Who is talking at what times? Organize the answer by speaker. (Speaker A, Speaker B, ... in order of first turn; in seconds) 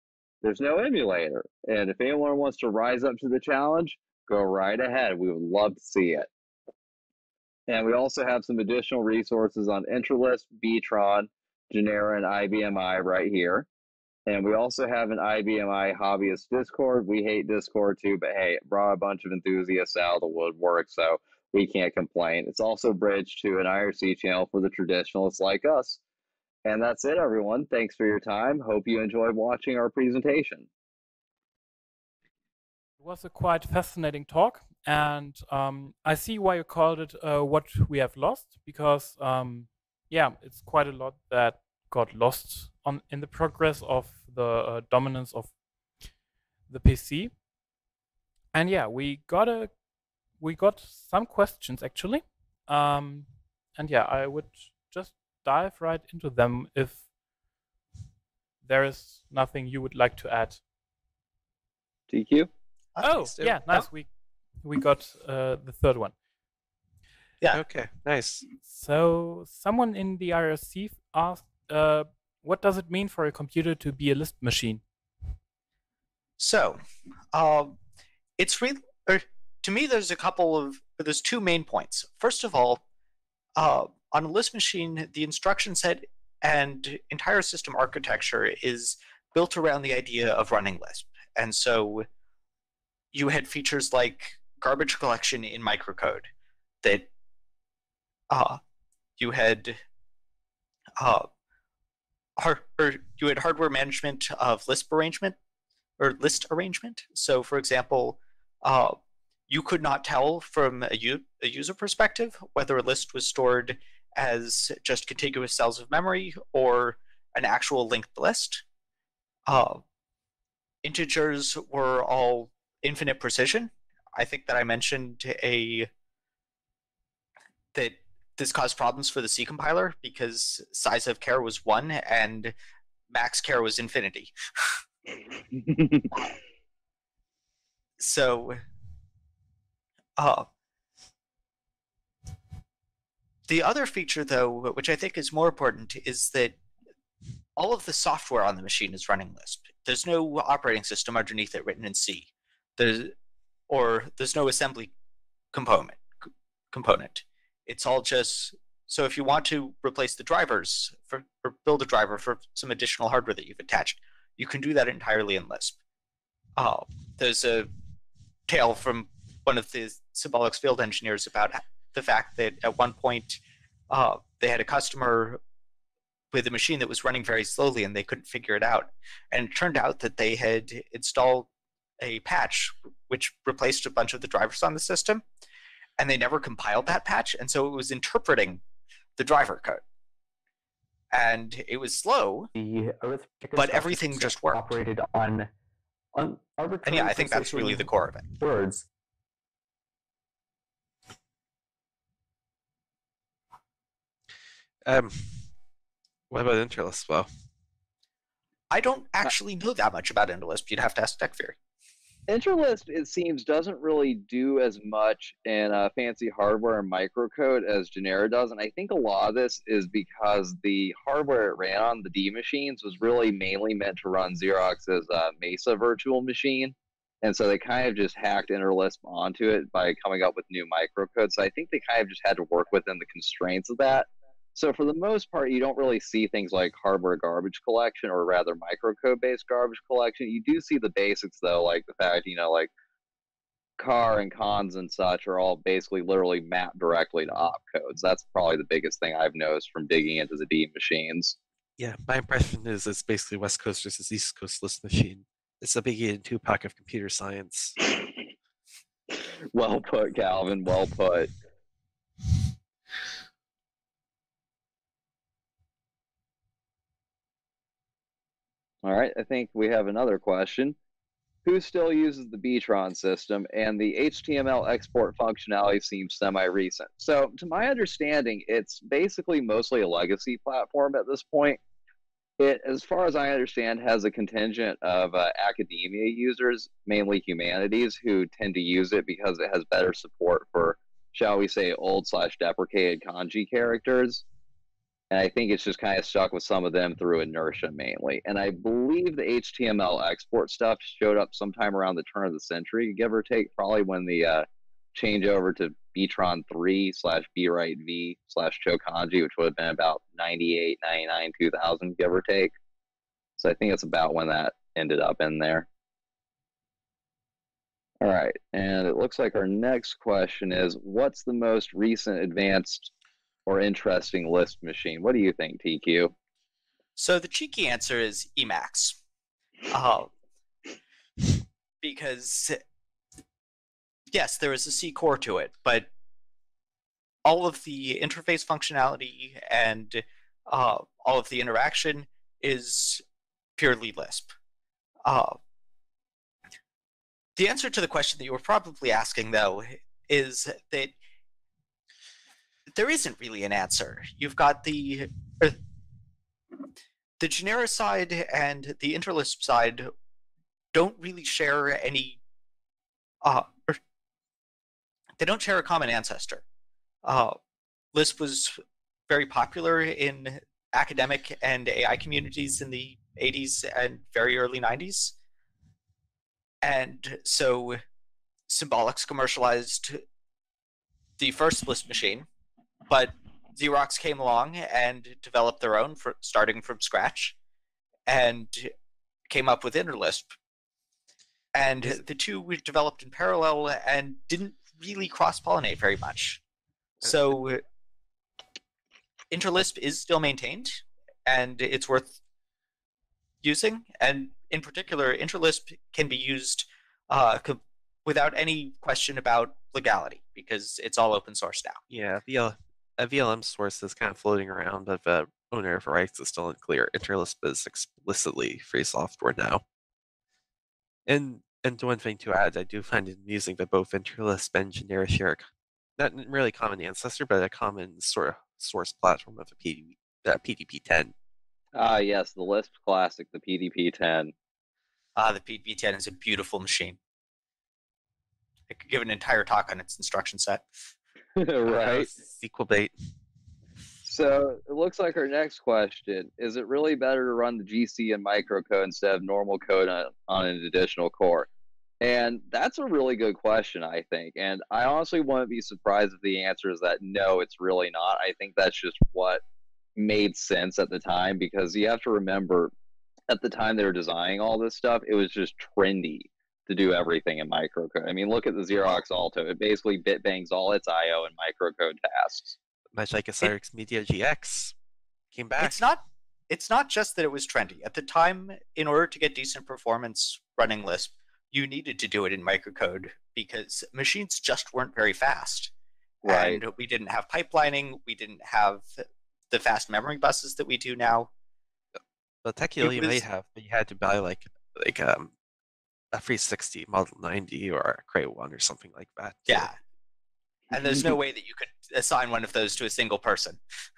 Speaker A: 0.4-6.3, 7.7-13.7, 14.3-26.0, 26.6-30.7, 62.1-62.5, 135.5-136.1, 212.3-242.7, 243.8-251.4, 259.1-261.3, 268.8-270.8, 271.4-281.6, 282.4-294.2, 295.1-312.5, 313.4-315.7, 318.0-322.9, 323.4-326.1, 431.7-434.3, 441.4-442.1, 444.0-451.5, 452.0-459.4, 459.9-462.7, 463.3-472.5, 486.2-486.6
Speaker B: 33.0-45.5, 46.7-47.4, 48.5-49.7, 50.4-57.0, 58.6-60.6, 63.0-64.1, 64.6-66.1, 68.7-74.8
Speaker C: 62.9-63.9, 76.4-76.8, 77.3-77.8, 78.4-82.8, 83.5-92.1, 93.1-96.3, 96.8-97.1, 98.3-98.6, 99.2-99.8, 101.0-101.3, 102.4-105.3, 106.0-109.0, 109.5-118.6, 119.5-119.8, 120.8-125.9, 127.7-132.5, 133.1-134.3, 138.0-138.6, 140.2-140.4, 143.5-146.6, 147.6-153.1, 153.7-154.9, 155.5-156.0, 156.7-165.8, 166.6-167.7, 168.5-175.4, 176.3-181.5, 182.0-185.2, 186.0-188.6, 189.2-189.8, 191.1-192.5, 193.5-195.1, 196.8-198.4, 208.7-211.5, 326.9-329.0, 329.7-330.1, 331.8-332.6, 334.1-335.9, 337.2-343.0, 343.6-344.3, 345.0-345.4, 347.4-350.9, 352.7-355.6, 357.2-359.9, 360.7-362.2, 363.2-363.8, 365.2-366.4, 367.0-367.4, 367.9-368.6, 369.1-375.1, 376.6-377.8, 378.5-380.0, 381.2-382.3, 382.9-387.4, 388.1-388.7, 389.3-390.3, 391.5-396.4, 397.0-397.6, 399.3-402.2, 403.4-411.8, 435.1-437.0, 438.7-440.7, 475.6-485.7, 486.2-491.3, 492.8-493.2, 499.5-499.7, 500.7-503.6
Speaker D: 67.5-68.4, 193.6-194.5, 196.9-197.3, 204.8-205.5, 206.3-207.3, 251.8-257.8, 411.9-419.6, 421.1-425.4, 426.0-431.1, 441.7-442.9, 472.9-474.7, 475.3-475.9, 492.4-495.3, 496.1-499.7
Speaker E: 192.6-193.4, 194.9-195.2, 196.2-197.5, 198.4-198.8